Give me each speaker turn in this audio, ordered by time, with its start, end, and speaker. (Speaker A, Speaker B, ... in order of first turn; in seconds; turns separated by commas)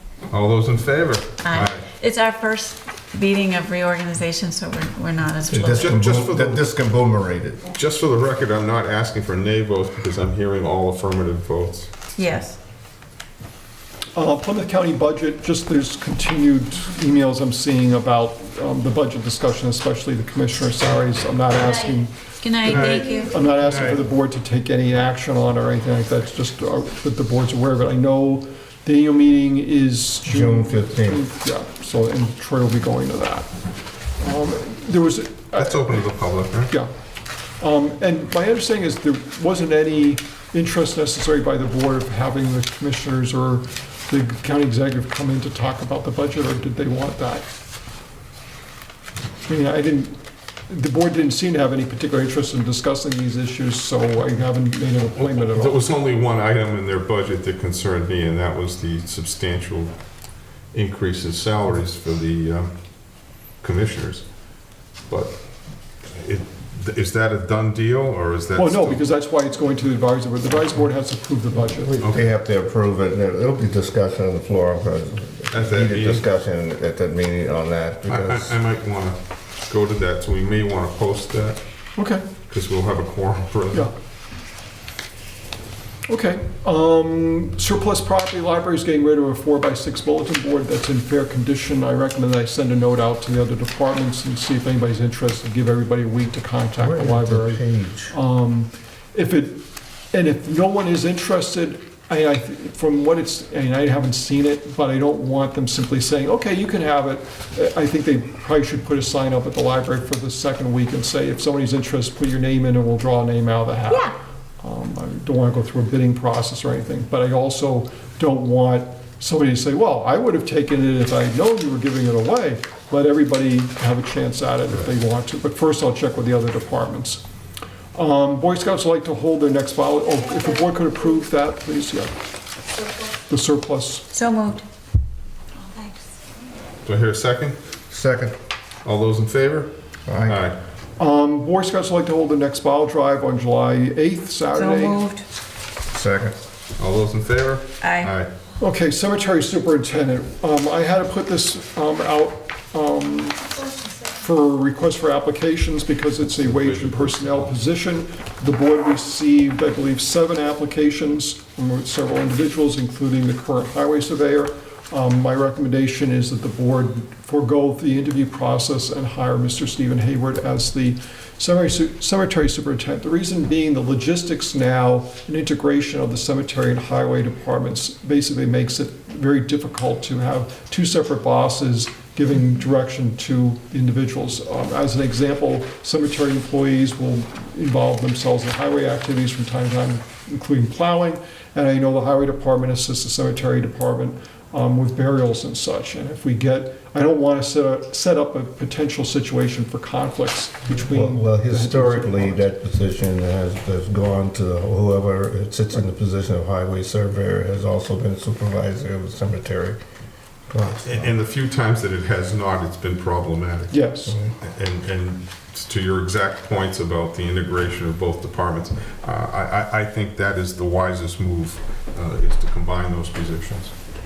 Speaker A: 0.3-1.9, Speaker B: 1.4-5.9, Speaker C: 5.5-7.6, Speaker A: 5.8-6.7, Speaker A: 7.7-11.9, Speaker B: 12.2-12.6, Speaker D: 14.1-33.5, Speaker B: 22.4-23.3, Speaker A: 22.7-22.9, Speaker A: 23.6-24.0, Speaker C: 30.2-31.2, Speaker D: 34.2-36.0, Speaker A: 35.5-36.7, Speaker D: 37.6-47.5, Speaker D: 49.5-55.8, Speaker A: 55.2-59.9, Speaker A: 60.7-62.7, Speaker A: 63.6-64.2, Speaker A: 65.1-65.3, Speaker A: 66.1-69.0, Speaker D: 68.5-72.0, Speaker C: 71.6-78.5, Speaker A: 72.0-72.3, Speaker A: 75.5-76.2, Speaker A: 78.1-81.6, Speaker D: 82.0-82.2, Speaker A: 82.5-83.9, Speaker D: 86.1-127.2, Speaker C: 96.8-98.1, Speaker D: 127.9-132.1, Speaker D: 133.3-134.1, Speaker B: 134.1-134.6, Speaker A: 136.8-137.6, Speaker C: 137.9-138.3, Speaker A: 138.8-139.7, Speaker C: 140.1-140.4, Speaker A: 140.2-140.6, Speaker D: 141.0-145.1, Speaker B: 144.5-145.2, Speaker C: 145.9-146.3, Speaker A: 146.8-148.3, Speaker B: 147.8-148.1, Speaker D: 148.6-153.5, Speaker D: 154.1-202.5, Speaker A: 156.3-157.5, Speaker C: 200.7-209.8, Speaker C: 210.5-211.1, Speaker A: 210.8-223.7, Speaker D: 213.7-214.1, Speaker C: 214.1-214.3